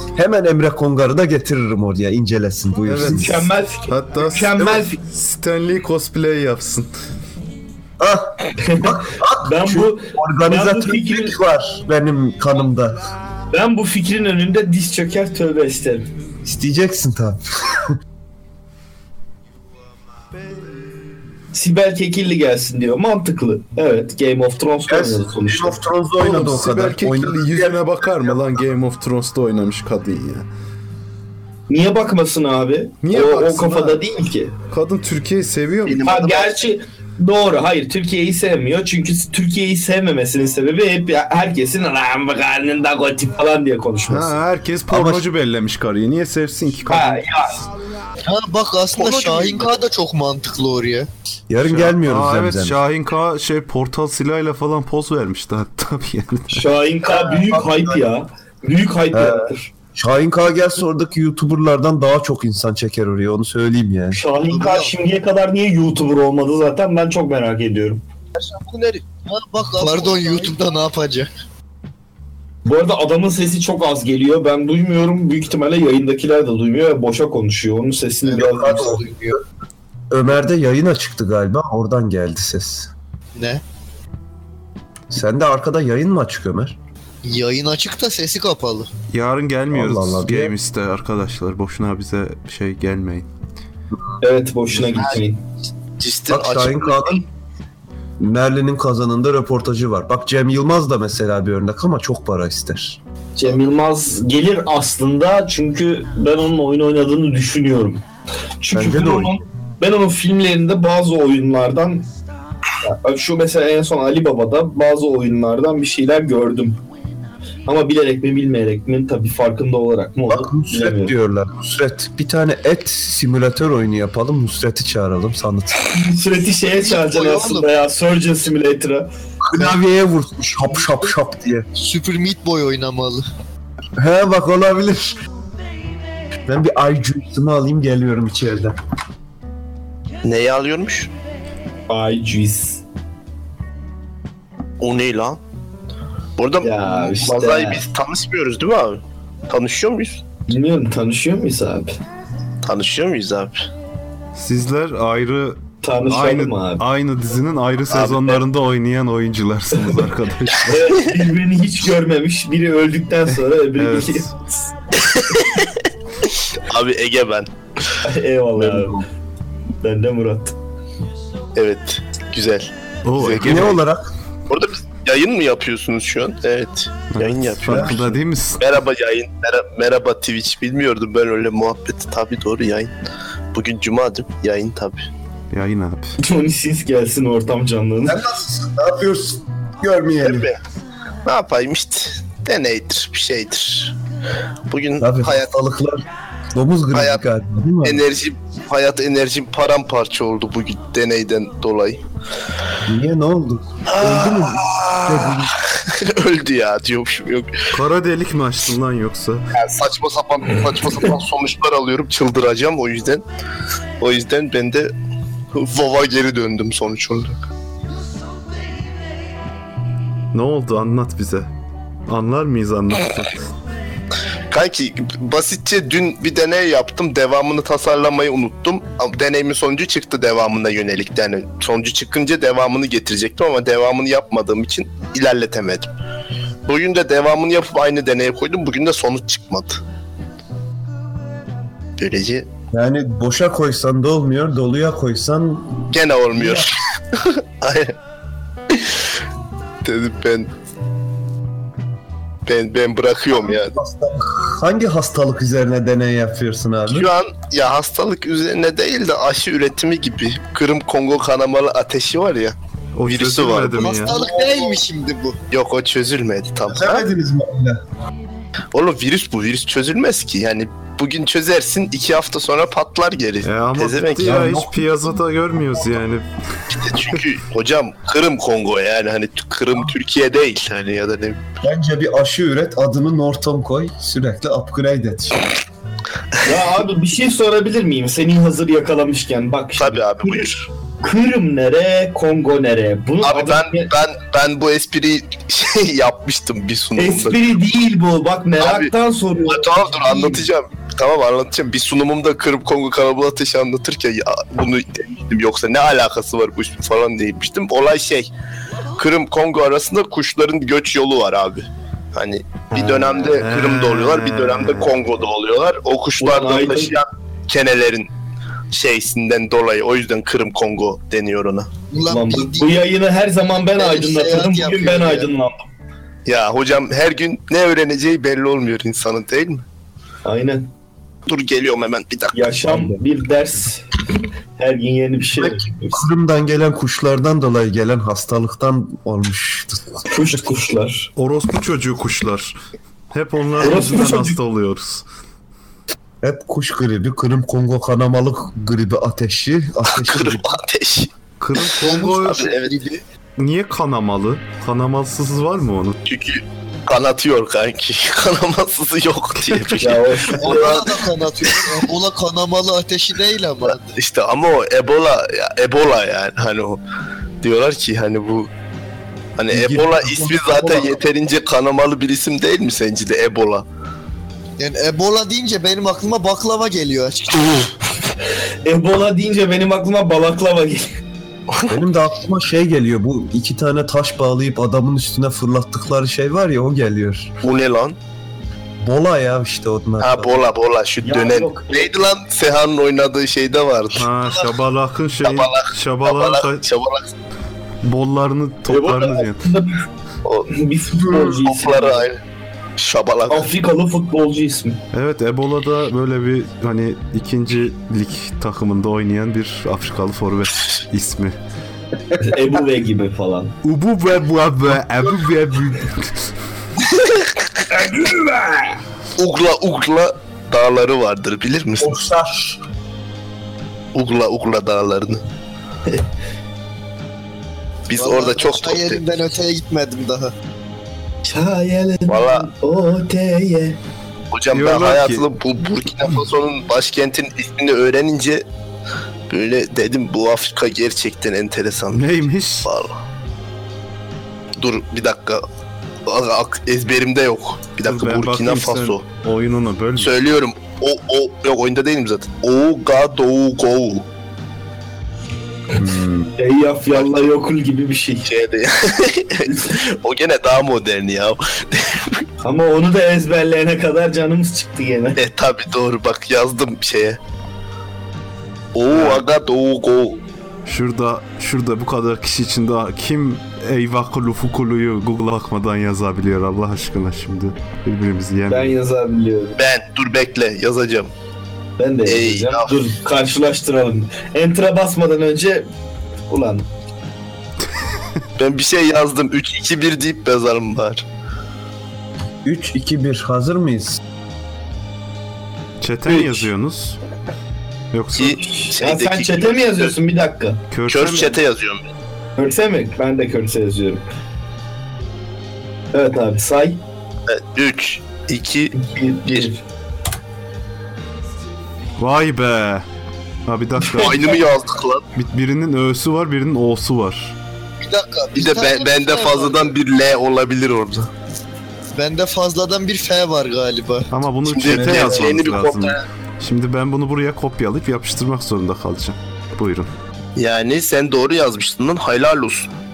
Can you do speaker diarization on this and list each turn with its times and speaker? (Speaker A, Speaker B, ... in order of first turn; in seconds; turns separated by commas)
Speaker A: 0.1-3.4, Speaker B: 2.9-6.9, Speaker C: 3.0-5.0, Speaker A: 8.0-13.1, Speaker C: 8.6-11.3, Speaker C: 13.5-16.1, Speaker A: 16.4-17.9, Speaker C: 21.5-25.8, Speaker A: 24.9-28.6, Speaker B: 26.2-30.5, Speaker C: 31.7-34.5, Speaker B: 33.0-34.0, Speaker B: 34.7-36.0, Speaker D: 35.9-36.6, Speaker C: 36.0-44.3, Speaker B: 44.1-47.2, Speaker A: 44.9-45.2, Speaker C: 46.9-47.6, Speaker E: 48.2-51.1, Speaker D: 48.9-49.8, Speaker A: 51.5-52.8, Speaker B: 51.6-56.7, Speaker C: 56.5-59.7, Speaker A: 57.0-58.0, Speaker A: 59.1-64.2, Speaker C: 64.1-68.0, Speaker E: 64.5-64.9, Speaker A: 68.4-69.0, Speaker E: 69.2-71.3, Speaker A: 69.8-70.5, Speaker C: 72.6-79.0, Speaker E: 78.3-79.0, Speaker A: 78.3-79.4, Speaker A: 80.1-82.9, Speaker E: 83.3-83.6, Speaker A: 85.1-86.8, Speaker E: 87.2-88.9, Speaker B: 89.1-93.3, Speaker A: 89.7-90.5, Speaker C: 94.2-95.4, Speaker D: 96.0-97.2, Speaker A: 96.3-97.2, Speaker A: 98.2-103.0, Speaker C: 103.3-108.0, Speaker C: 108.6-112.0, Speaker A: 108.7-109.4, Speaker C: 112.8-116.8, Speaker C: 117.7-121.1, Speaker A: 120.3-126.1, Speaker C: 125.9-129.1, Speaker E: 126.6-127.7, Speaker A: 129.4-131.7, Speaker E: 131.8-133.2, Speaker A: 134.0-135.2, Speaker A: 136.5-138.8, Speaker D: 140.2-141.1, Speaker C: 141.9-142.8, Speaker D: 144.8-145.4, Speaker D: 146.4-150.2, Speaker C: 146.6-147.8, Speaker C: 150.5-152.0, Speaker D: 152.6-153.7, Speaker B: 154.3-160.8, Speaker C: 155.8-156.8, Speaker D: 157.9-158.4, Speaker C: 160.7-164.3, Speaker B: 163.8-164.3, Speaker D: 166.5-168.0, Speaker C: 168.0-169.0, Speaker A: 168.6-169.0, Speaker C: 169.8-170.5, Speaker D: 171.5-173.7, Speaker B: 173.0-173.8, Speaker A: 173.3-174.1, Speaker D: 174.5-177.9, Speaker B: 177.1-178.6, Speaker A: 177.6-178.2, Speaker D: 178.6-182.9, Speaker D: 183.5-185.1, Speaker B: 185.5-186.2, Speaker C: 186.2-188.2, Speaker A: 188.0-190.5, Speaker D: 190.2-190.6, Speaker D: 191.2-193.9, Speaker D: 194.7-195.4, Speaker A: 195.0-198.0, Speaker D: 196.9-197.2, Speaker D: 197.8-202.0, Speaker A: 202.8-205.5, Speaker D: 203.8-207.7, Speaker B: 207.7-209.4, Speaker D: 209.5-213.2, Speaker D: 214.0-214.9, Speaker D: 215.5-217.4, Speaker B: 220.3-221.5, Speaker B: 222.1-223.4, Speaker D: 224.5-235.9, Speaker D: 236.7-239.8, Speaker D: 242.0-242.5, Speaker A: 242.7-246.7, Speaker D: 245.9-247.9, Speaker D: 248.7-249.0, Speaker D: 249.8-250.5, Speaker D: 252.4-253.7, Speaker A: 253.5-257.1, Speaker D: 256.9-262.6, Speaker B: 262.9-264.1, Speaker D: 263.1-264.0, Speaker E: 263.8-265.4, Speaker A: 264.1-264.7, Speaker D: 265.5-267.1, Speaker A: 266.7-267.8, Speaker D: 268.7-274.4, Speaker B: 273.4-276.2, Speaker A: 274.2-275.1, Speaker D: 276.7-281.4, Speaker A: 281.6-285.5, Speaker C: 286.4-290.4, Speaker D: 289.8-290.7, Speaker C: 291.0-293.9, Speaker D: 293.2-297.4, Speaker C: 297.0-300.4, Speaker D: 298.6-298.9, Speaker D: 299.5-308.3, Speaker D: 308.9-318.1, Speaker C: 312.7-313.4, Speaker B: 313.4-315.0, Speaker C: 316.2-317.0, Speaker D: 318.7-321.7, Speaker E: 321.9-322.7, Speaker C: 322.1-325.7, Speaker E: 323.8-325.3, Speaker D: 326.2-329.6, Speaker C: 330.2-330.7, Speaker D: 331.2-332.6, Speaker C: 332.3-334.0, Speaker A: 332.7-333.0, Speaker C: 334.6-336.0, Speaker A: 335.4-340.0, Speaker C: 340.1-341.1, Speaker B: 341.1-342.6, Speaker B: 343.1-345.0, Speaker C: 343.6-344.4, Speaker A: 346.2-350.6, Speaker D: 349.9-352.8, Speaker B: 351.4-352.5, Speaker E: 351.7-353.0, Speaker B: 353.4-356.0, Speaker D: 356.1-361.7, Speaker C: 359.8-360.7, Speaker E: 360.4-363.9, Speaker D: 363.9-366.8, Speaker D: 367.4-368.5, Speaker D: 369.4-373.6, Speaker A: 369.5-371.0, Speaker E: 374.6-377.7, Speaker C: 378.6-380.9, Speaker D: 381.5-381.8, Speaker A: 381.7-387.3, Speaker D: 387.4-388.0, Speaker A: 388.8-390.4, Speaker D: 390.0-394.1, Speaker C: 391.0-391.9, Speaker B: 393.9-396.6, Speaker D: 395.2-397.1, Speaker B: 397.8-399.4, Speaker C: 398.7-399.8, Speaker D: 400.2-400.6, Speaker C: 400.5-402.0, Speaker D: 401.2-402.2, Speaker D: 402.8-403.5, Speaker C: 403.3-404.8, Speaker B: 404.9-411.4, Speaker C: 412.2-413.5, Speaker B: 413.6-416.3, Speaker C: 417.7-418.8, Speaker D: 419.2-422.0, Speaker A: 421.8-422.6, Speaker D: 423.9-425.2, Speaker D: 427.9-429.0, Speaker E: 427.9-430.3, Speaker C: 431.2-433.8, Speaker D: 432.1-432.5, Speaker D: 434.3-438.4, Speaker B: 434.5-435.2, Speaker D: 439.3-442.1, Speaker B: 441.9-442.7, Speaker D: 442.6-443.0, Speaker D: 444.6-445.4, Speaker D: 446.1-449.0, Speaker B: 447.9-450.1, Speaker D: 450.0-454.1, Speaker B: 455.8-456.3, Speaker C: 456.4-458.3, Speaker D: 458.2-462.2, Speaker C: 462.4-465.2, Speaker D: 465.2-467.2, Speaker D: 468.7-470.2, Speaker B: 470.6-478.7, Speaker C: 478.5-479.6, Speaker D: 479.6-481.1, Speaker C: 481.8-485.7, Speaker D: 482.0-482.9, Speaker C: 486.3-486.7, Speaker D: 488.4-491.0, Speaker A: 492.4-494.0, Speaker B: 495.8-497.0, Speaker C: 496.1-496.5, Speaker B: 497.9-498.4, Speaker D: 498.1-499.9, Speaker C: 498.4-500.6, Speaker B: 500.7-501.4, Speaker D: 500.9-501.9, Speaker C: 502.4-504.0, Speaker C: 505.9-506.8, Speaker D: 507.3-508.7, Speaker C: 508.7-509.6, Speaker B: 512.0-512.9, Speaker B: 513.5-514.3, Speaker C: 513.8-514.4, Speaker D: 513.9-515.0, Speaker B: 515.1-517.3, Speaker E: 517.8-519.7, Speaker D: 518.3-521.1, Speaker E: 521.9-524.1, Speaker B: 524.1-529.9, Speaker D: 524.5-526.0, Speaker C: 524.8-525.2, Speaker D: 530.4-532.7